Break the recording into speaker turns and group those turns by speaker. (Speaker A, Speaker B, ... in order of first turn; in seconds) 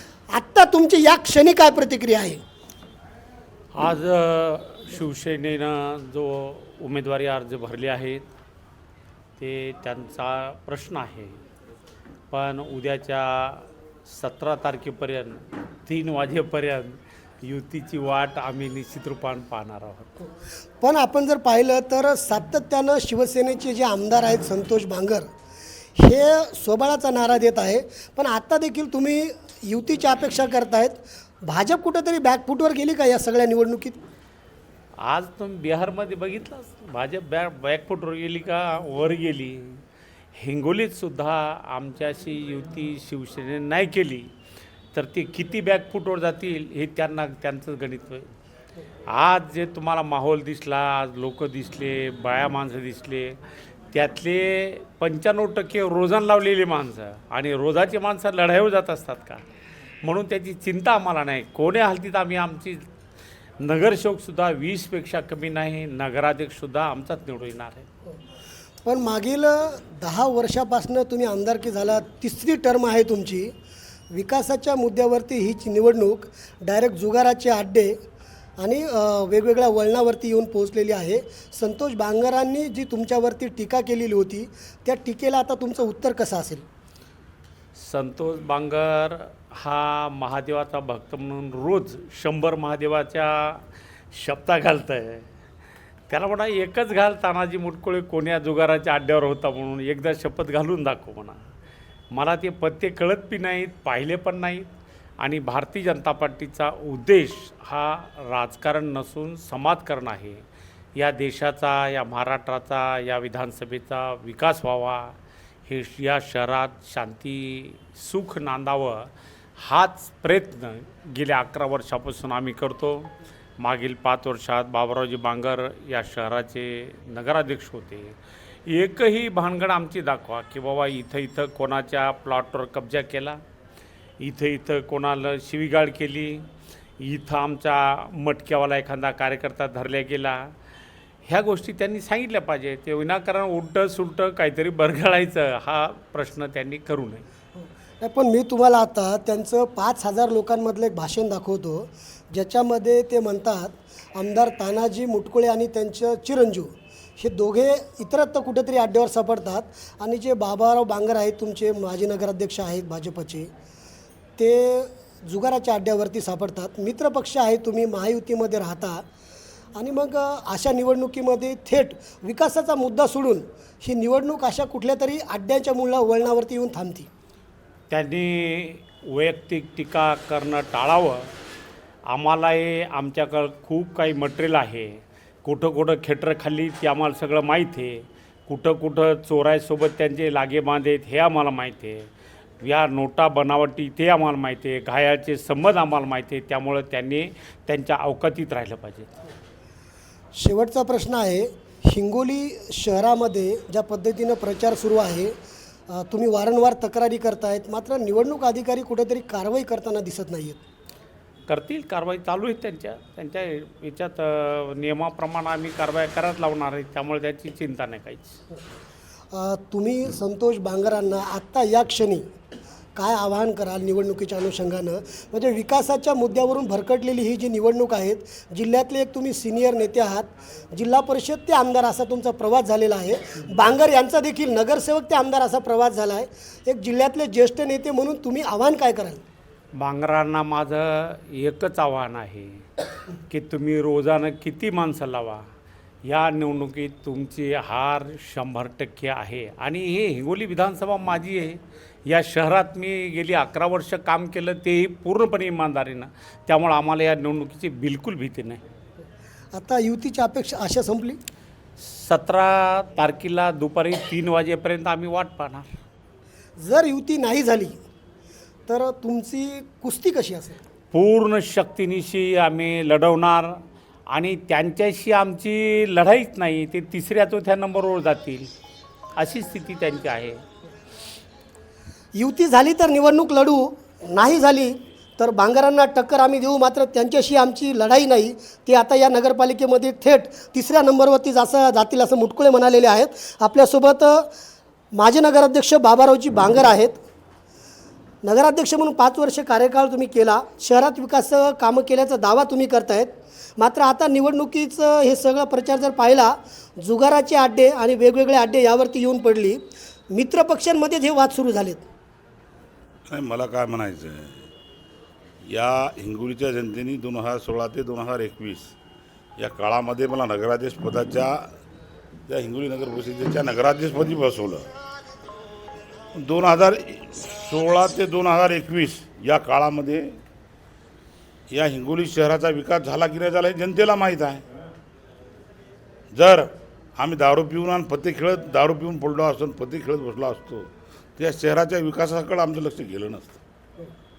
Speaker A: 0.3-2.4, 20.8-25.3, 25.9-34.0, 68.8-73.5, 74.1-78.0, 78.6-86.7, 147.6-163.5, 164.4-169.0, 169.8-177.1, 200.4-205.3, 205.9-210.6, 219.3-222.2, 222.9-239.2, 259.5-261.2, 266.6-267.8, 268.7-270.6, 282.1-294.3, 294.9-297.0, 298.2-311.9
Speaker B: 3.7-8.2, 9.4-11.4, 12.3-20.1, 35.0-39.8, 40.3-44.3, 44.9-48.3, 49.1-53.4, 53.9-59.4, 60.0-62.8, 63.6-67.8, 87.8-95.2, 96.1-101.4, 102.1-104.7, 105.2-133.4, 134.2-136.4, 137.0-140.5, 141.2-147.2, 177.9-181.3, 182.1-192.1, 192.6-199.1, 211.5-218.4, 239.8-242.7, 243.3-245.4, 246.0-258.6, 261.8-265.8, 270.9-273.6, 274.1-278.5, 279.2-280.4
Speaker C: 313.1-314.5, 315.5-318.7, 319.4-321.5, 322.3-324.6, 326.1-330.1, 331.5-334.4, 336.1-343.4